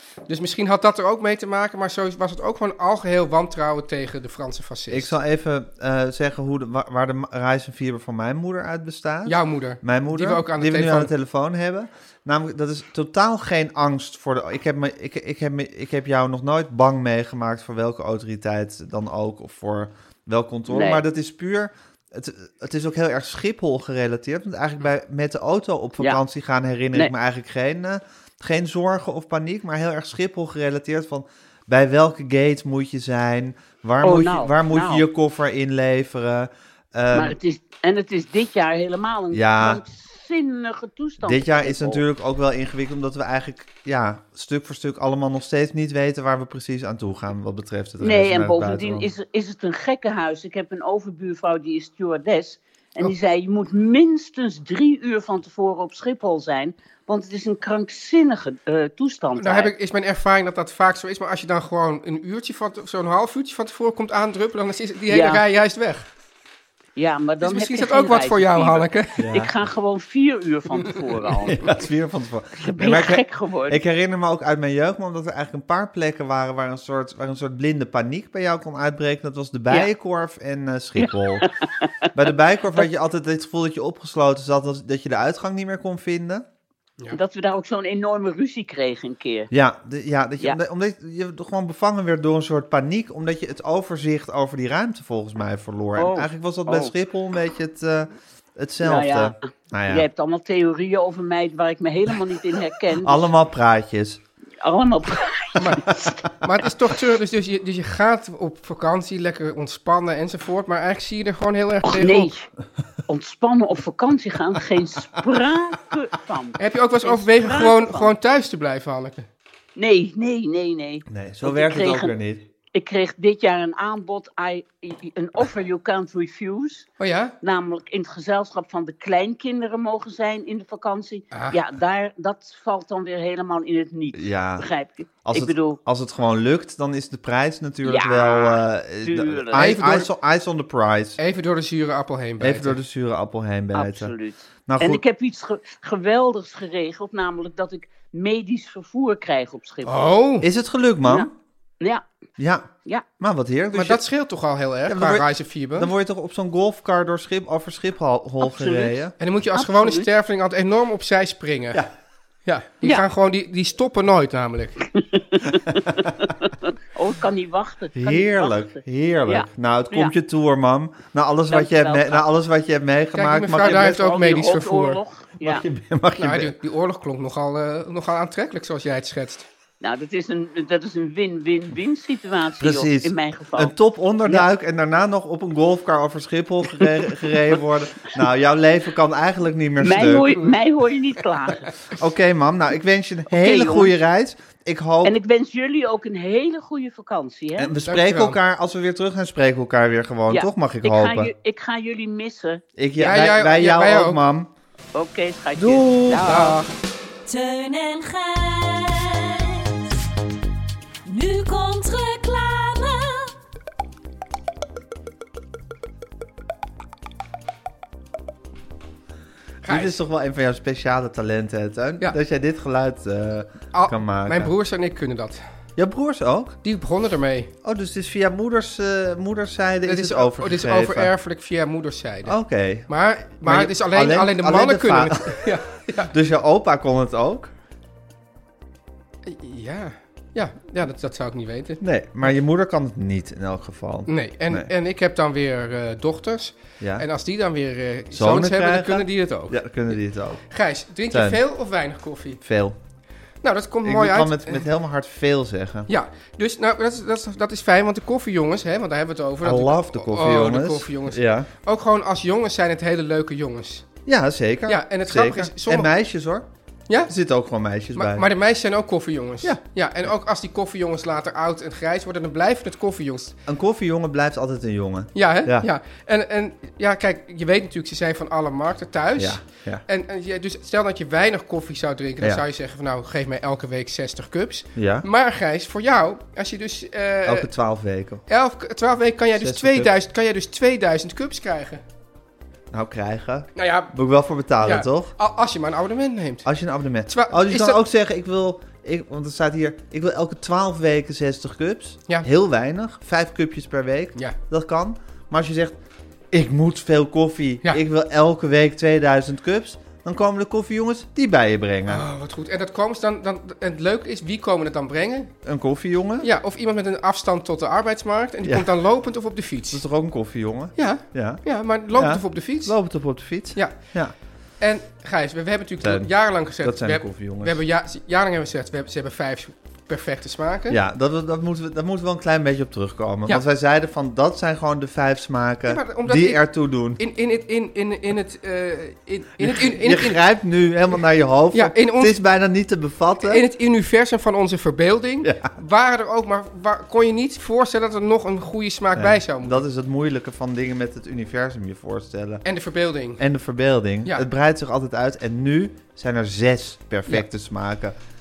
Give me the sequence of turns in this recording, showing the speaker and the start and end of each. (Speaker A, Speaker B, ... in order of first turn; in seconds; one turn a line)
Speaker A: 0.3-5.1
Speaker B: 4.9-37.4
Speaker A: 9.2-11.1
Speaker C: 20.7-21.0
Speaker C: 34.0-35.0
Speaker C: 37.1-42.0
Speaker B: 39.3-39.8
Speaker B: 41.2-49.1
Speaker C: 48.0-59.7
Speaker A: 59.4-66.1
Speaker C: 65.1-65.4
Speaker C: 67.0-71.7
Speaker A: 67.4-69.2
Speaker B: 69.2-69.5
Speaker B: 71.5-81.5
Speaker C: 72.6-73.8
Speaker C: 81.0-82.1
Speaker B: 82.1-86.5
Speaker C: 87.1-89.5
Speaker B: 89.5-100.0
Speaker C: 96.0-96.9
Speaker C: 98.8-103.3
Speaker B: 103.0-104.2
Speaker C: 104.6-106.2
Speaker A: 105.6-112.3
Speaker C: 111.8-112.5
Speaker C: 113.1-118.1
Speaker A: 116.6-119.3
Speaker C: 119.8-122.1
Speaker B: 121.1-122.5
Speaker C: 122.7-126.9
Speaker A: 127.0-127.3
Speaker C: 127.4-135.8
Speaker A: 131.3-131.6
Speaker B: 134.1-134.7
Speaker B: 135.2-141.2
Speaker C: 137.8-139.8
Speaker A: 139.6-140.1
Speaker A: 141.2-142.8
Speaker B: 142.4-144.1
Speaker C: 143.7-149.9
Speaker B: 144.7-145.0
Speaker A: 149.8-150.5
Speaker B: 150.4-151.3
Speaker C: 151.8-152.1
Speaker B: 152.4-154.0
Speaker A: 153.7-155.9
Speaker B: 154.9-159.1
Speaker C: 158.4-159.0
Speaker A: 159.2-161.8
Speaker C: 159.5-160.1
Speaker A: 162.4-164.8
Speaker C: 164.9-170.1
Speaker B: 167.9-174.2
Speaker C: 171.5-172.2
Speaker A: 173.1-175.0
Speaker C: 173.9-175.6
Speaker B: 175.4-176.5
Speaker A: 176.2-179.5
Speaker C: 179.8-183.7
Speaker B: 182.6-190.4
Speaker C: 189.8-191.7
Speaker B: 191.9-195.1
Speaker C: 193.3-193.9
Speaker C: 195.0-197.7
Speaker B: 197.6-201.3
Speaker A: 197.8-198.4
Speaker C: 200.3-202.6
Speaker B: 202.8-204.5
Speaker A: 203.0-204.2
Speaker C: 204.9-206.6
Speaker B: 205.6-206.3
Speaker A: 206.2-206.7
Speaker D: 207.2-210.0
Speaker D: 211.0-213.3
Speaker A: 219.6-219.9
Speaker B: 219.7-224.5
Speaker A: 223.7-225.4
Speaker B: 225.8-226.6
Speaker A: 226.6-227.5
Speaker B: 227.6-231.1
Speaker A: 229.8-232.4
Speaker B: 232.2-235.5
Speaker A: 232.9-236.1
Speaker B: 236.1-237.5
Speaker A: 239.2-242.3
Speaker B: 241.8-244.7
Speaker A: 244.1-250.0
Speaker B: 246.8-247.1
Speaker B: 248.1-250.4
Speaker A: 250.5-252.4
Speaker B: 251.1-251.4
Speaker B: 252.4-252.8
Speaker A: 253.4-254.7
Speaker B: 253.8-255.9
Speaker A: 255.9-263.9
Speaker B: 259.4-261.5
Speaker B: 264.1-266.4
Speaker A: 264.7-265.9
Speaker B: 267.0-268.2
Speaker A: 267.9-273.4
Speaker B: 273.4-275.7
Speaker A: 275.1-287.5
Speaker B: 279.1-279.8
Speaker B: 284.8-285.1
Speaker B: 287.2-288.2
Speaker A: 288.3-291.8
Speaker B: 289.4-289.9
Speaker B: 292.7-295.1
Speaker A: 293.6-293.9
Speaker A: 294.6-296.5
Speaker B: 296.4-305.8
Speaker A: 297.0-297.8
Speaker B: 306.3-312.0
Speaker A: 311.9-315.3
Speaker B: 315.4-316.3
Speaker A: 316.2-319.8
Speaker B: 319.7-324.1
Speaker A: 320.8-323.0
Speaker A: 323.5-324.0
Speaker A: 324.6-330.8
Speaker B: 325.8-327.6
Speaker B: 330.7-337.0
Speaker A: 335.7-340.2
Speaker B: 339.4-343.4
Speaker A: 341.5-342.1
Speaker A: 343.2-349.6
Speaker B: 345.2-345.5
Speaker B: 348.9-352.4
Speaker A: 352.4-353.2
Speaker B: 353.2-357.9